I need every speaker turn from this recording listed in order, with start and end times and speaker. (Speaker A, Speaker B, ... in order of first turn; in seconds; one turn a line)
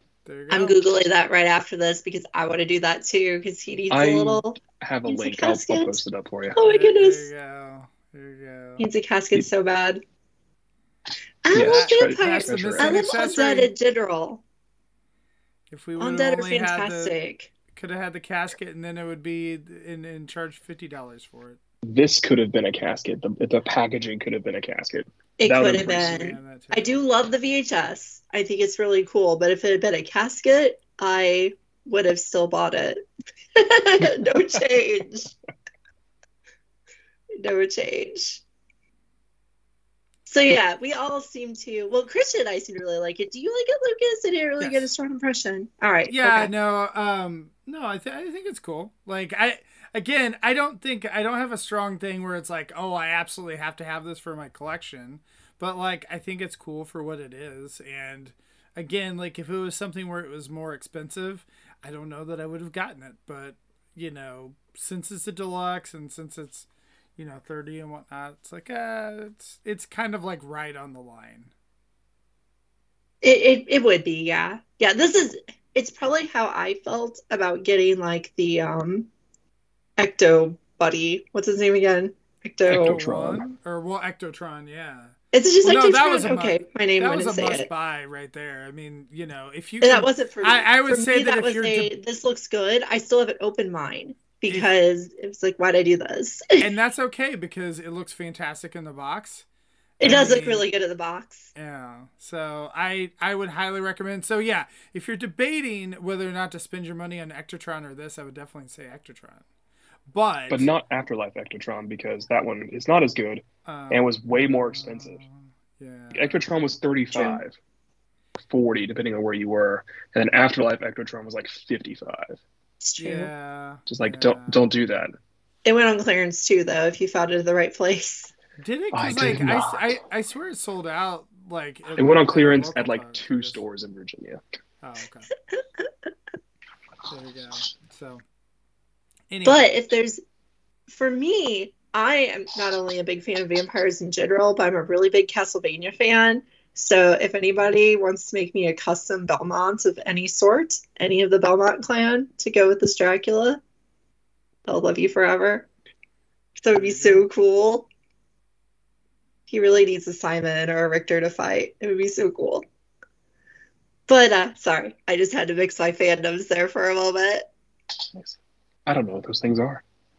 Speaker A: 0.2-0.8
Speaker B: 0.5-6.0
Speaker C: 3.9-6.6
Speaker B: 6.5-7.3
Speaker A: 6.6-8.9
Speaker B: 8.8-10.0
Speaker B: 11.4-14.4
Speaker C: 11.5-13.0
Speaker A: 11.6-13.7
Speaker A: 15.7-17.1
Speaker B: 16.0-17.5
Speaker A: 17.7-21.6
Speaker C: 21.8-26.4
Speaker B: 25.4-33.0
Speaker A: 25.9-27.0
Speaker B: 33.5-35.3
Speaker B: 37.4-38.4
Speaker B: 40.3-46.5
Speaker A: 44.6-44.9
Speaker A: 46.1-71.5
Speaker B: 73.2-79.1
Speaker B: 80.0-83.0
Speaker C: 82.7-83.4
Speaker A: 82.7-91.9
Speaker B: 85.3-87.7
Speaker B: 89.8-96.7
Speaker A: 96.6-99.4
Speaker B: 100.0-101.5
Speaker A: 100.0-100.7
Speaker A: 101.5-109.4
Speaker A: 110.1-110.7
Speaker C: 110.5-115.2
Speaker A: 113.6-116.5
Speaker C: 116.1-117.5
Speaker B: 117.1-117.4
Speaker C: 118.3-122.4
Speaker B: 122.8-123.3
Speaker A: 123.0-124.6
Speaker C: 123.9-125.1
Speaker B: 125.6-128.3
Speaker A: 128.6-133.6
Speaker C: 128.9-129.8
Speaker C: 131.9-134.4
Speaker A: 134.8-135.3
Speaker A: 137.1-138.2
Speaker A: 139.3-139.7
Speaker B: 139.4-140.2
Speaker B: 140.9-153.6
Speaker B: 154.7-155.7
Speaker B: 156.6-157.9
Speaker A: 156.7-157.2
Speaker B: 159.5-162.6
Speaker B: 164.1-167.5
Speaker C: 168.1-169.8